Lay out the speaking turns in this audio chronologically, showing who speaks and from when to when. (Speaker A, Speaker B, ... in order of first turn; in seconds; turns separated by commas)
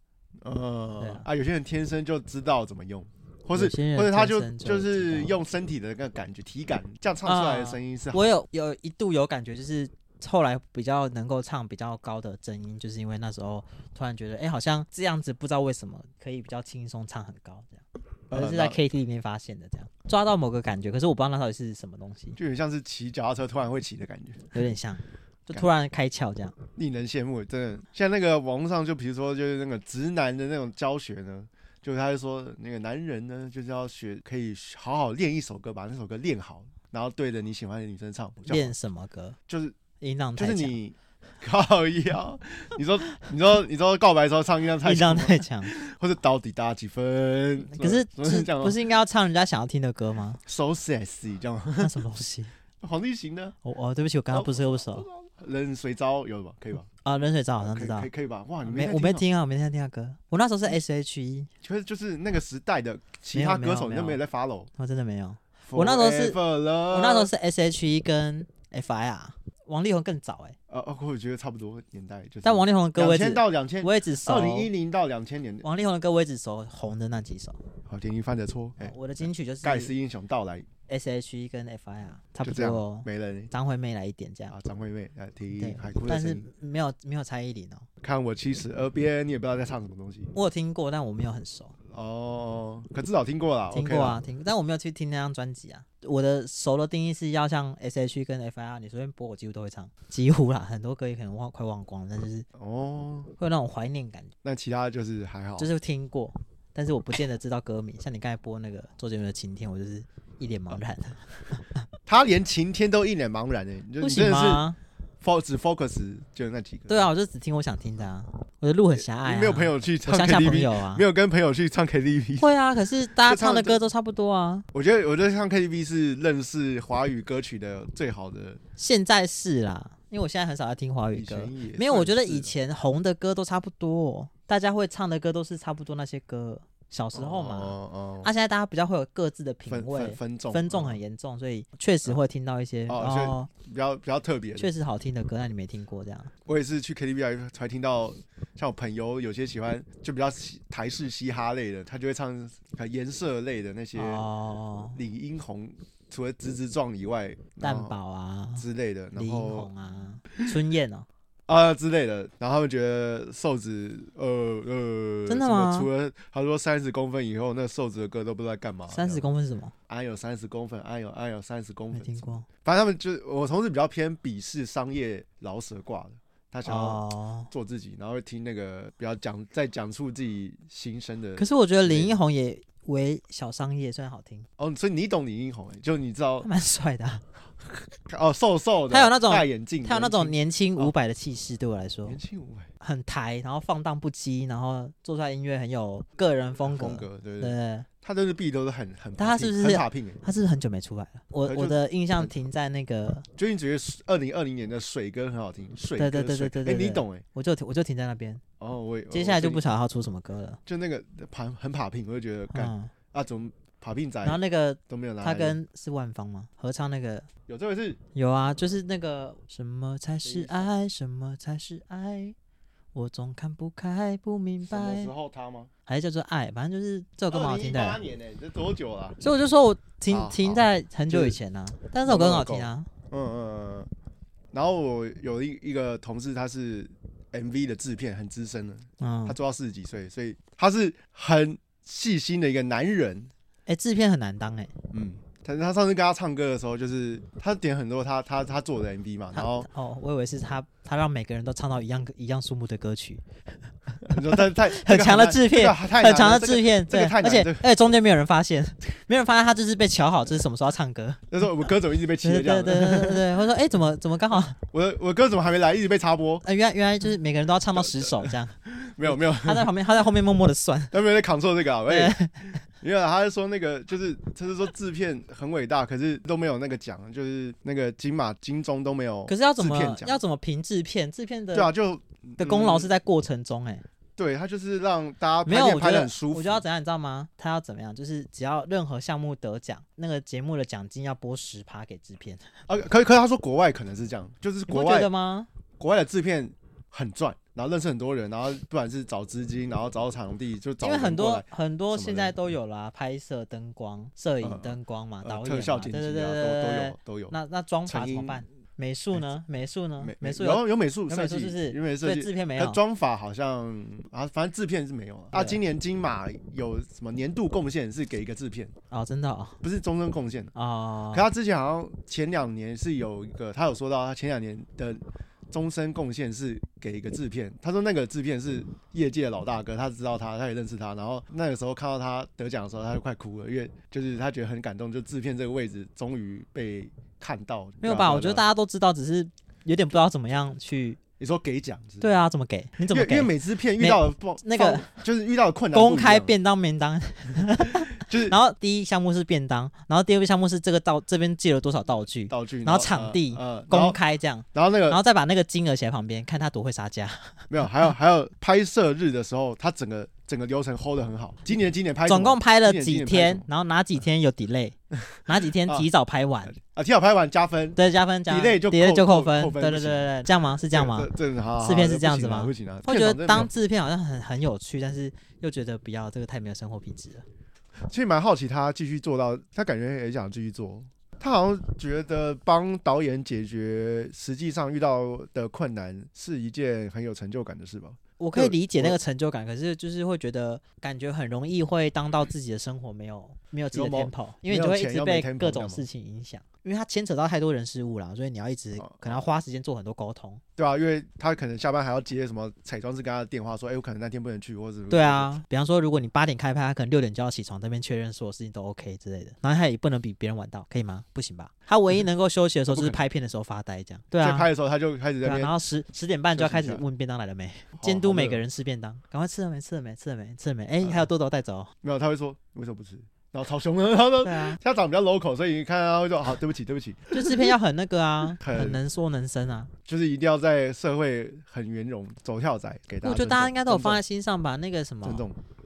Speaker A: 0.4-8.3, Speaker B: 1.0-1.2, Speaker B: 3.5-5.4, Speaker B: 7.2-22.4, Speaker A: 18.3-18.8, Speaker A: 22.4-24.6, Speaker B: 24.5-26.5, Speaker A: 26.8-38.7, Speaker B: 38.4-39.4, Speaker A: 39.5-39.8, Speaker B: 40.0-40.7, Speaker A: 40.4-48.8, Speaker B: 44.8-45.7, Speaker B: 47.7-50.4, Speaker A: 50.4-52.0, Speaker B: 51.8-52.5, Speaker A: 52.8-53.5, Speaker B: 53.6-55.0, Speaker A: 54.3-56.9, Speaker B: 57.0-58.1, Speaker A: 57.6-59.2, Speaker B: 58.6-61.5, Speaker A: 61.6-64.7, Speaker B: 63.3-64.2, Speaker B: 64.8-66.4, Speaker A: 65.6-67.3, Speaker B: 66.9-70.5, Speaker A: 70.7-75.7, Speaker B: 72.4-74.7, Speaker B: 75.6-77.6, Speaker A: 77.9-80.7, Speaker B: 78.8-79.9, Speaker B: 80.9-84.5, Speaker A: 82.4-83.5, Speaker A: 84.5-86.5, Speaker B: 85.6-87.8, Speaker A: 88.0-90.3, Speaker B: 90.3-91.7, Speaker A: 91.9-94.2, Speaker B: 93.7-102.5, Speaker A: 102.5-103.3, Speaker B: 103.4-104.3, Speaker A: 104.4-105.7, Speaker B: 105.6-111.6, Speaker A: 112.0-114.7, Speaker B: 114.0-114.8, Speaker A: 115.2-117.1, Speaker B: 116.9-121.0, Speaker A: 118.9-122.5, Speaker B: 122.4-124.7, Speaker A: 123.2-123.8, Speaker A: 124.7-128.6, Speaker B: 128.8-143.5, Speaker A: 131.1-132.5, Speaker A: 137.1-138.3, Speaker A: 139.7-141.0, Speaker A: 142.9-144.7, Speaker B: 144.6-146.3, Speaker A: 146.4-154.2, Speaker B: 153.9-155.0, Speaker A: 154.9-157.9, Speaker B: 157.6-158.6, Speaker A: 158.6-159.7, Speaker B: 159.2-161.1, Speaker A: 161.5-169.2, Speaker B: 165.3-165.9, Speaker B: 168.9-169.7, Speaker A: 169.9-182.2, Speaker B: 171.9-172.5, Speaker B: 176.6-177.5, Speaker B: 181.4-184.5, Speaker A: 184.6-186.5, Speaker B: 186.4-187.2, Speaker A: 188.0-190.9, Speaker B: 188.9-192.2, Speaker A: 192.1-192.7, Speaker B: 192.8-197.9, Speaker A: 196.6-200.2, Speaker B: 199.2-203.2, Speaker A: 201.4-202.3, Speaker A: 203.4-207.2, Speaker B: 206.0-208.4, Speaker A: 208.6-209.7, Speaker B: 209.1-210.6, Speaker A: 210.7-215.6, Speaker B: 212.5-212.9, Speaker B: 214.2-217.3, Speaker A: 217.5-218.0, Speaker B: 218.1-222.3, Speaker A: 220.2-220.7, Speaker B: 222.9-225.1, Speaker A: 224.6-225.7, Speaker B: 225.9-228.0, Speaker A: 227.3-229.2, Speaker B: 229.2-232.9, Speaker A: 230.1-231.4, Speaker A: 232.0-233.9, Speaker A: 234.5-243.3, Speaker B: 239.0-239.3, Speaker B: 243.7-244.7, Speaker A: 244.9-249.7, Speaker B: 249.3-253.2, Speaker B: 253.9-261.3, Speaker A: 254.1-257.7, Speaker A: 261.3-263.2, Speaker B: 262.2-264.6, Speaker A: 264.6-266.4, Speaker B: 266.4-270.9, Speaker A: 267.7-269.7, Speaker A: 270.9-280.2, Speaker B: 271.9-272.4, Speaker B: 279.3-281.7, Speaker A: 281.5-282.9, Speaker B: 282.4-283.8, Speaker A: 284.2-286.6, Speaker B: 285.4-292.4, Speaker A: 292.7-295.1, Speaker B: 294.7-295.5, Speaker A: 295.8-302.4, Speaker B: 300.8-312.8, Speaker A: 304.4-308.4, Speaker A: 310.0-318.7, Speaker B: 315.3-315.6, Speaker B: 318.9-319.6, Speaker A: 319.6-320.5, Speaker B: 320.5-321.2, Speaker A: 321.1-338.4, Speaker B: 337.8-341.0, Speaker A: 341.2-342.2, Speaker B: 342.0-345.0, Speaker A: 342.9-346.3, Speaker B: 345.7-357.5, Speaker A: 347.9-348.4, Speaker A: 352.3-354.0, Speaker A: 354.5-355.0, Speaker A: 357.5-363.4, Speaker B: 362.1-366.6, Speaker A: 364.9-365.9, Speaker A: 366.4-370.1, Speaker B: 367.8-377.2, Speaker A: 370.7-373.5, Speaker A: 377.8-389.0, Speaker B: 388.2-400.4, Speaker A: 393.7-395.8, Speaker A: 398.8-399.2, Speaker A: 400.6-405.4, Speaker B: 404.9-414.5, Speaker A: 412.6-413.0, Speaker A: 414.2-415.5, Speaker B: 415.2-421.7, Speaker A: 416.3-416.8, Speaker A: 417.7-418.4, Speaker A: 420.8-421.1, Speaker A: 421.8-427.5, Speaker B: 424.2-424.6, Speaker B: 427.1-429.7, Speaker A: 428.4-428.8, Speaker A: 429.9-434.0, Speaker B: 433.0-435.2, Speaker A: 435.0-435.4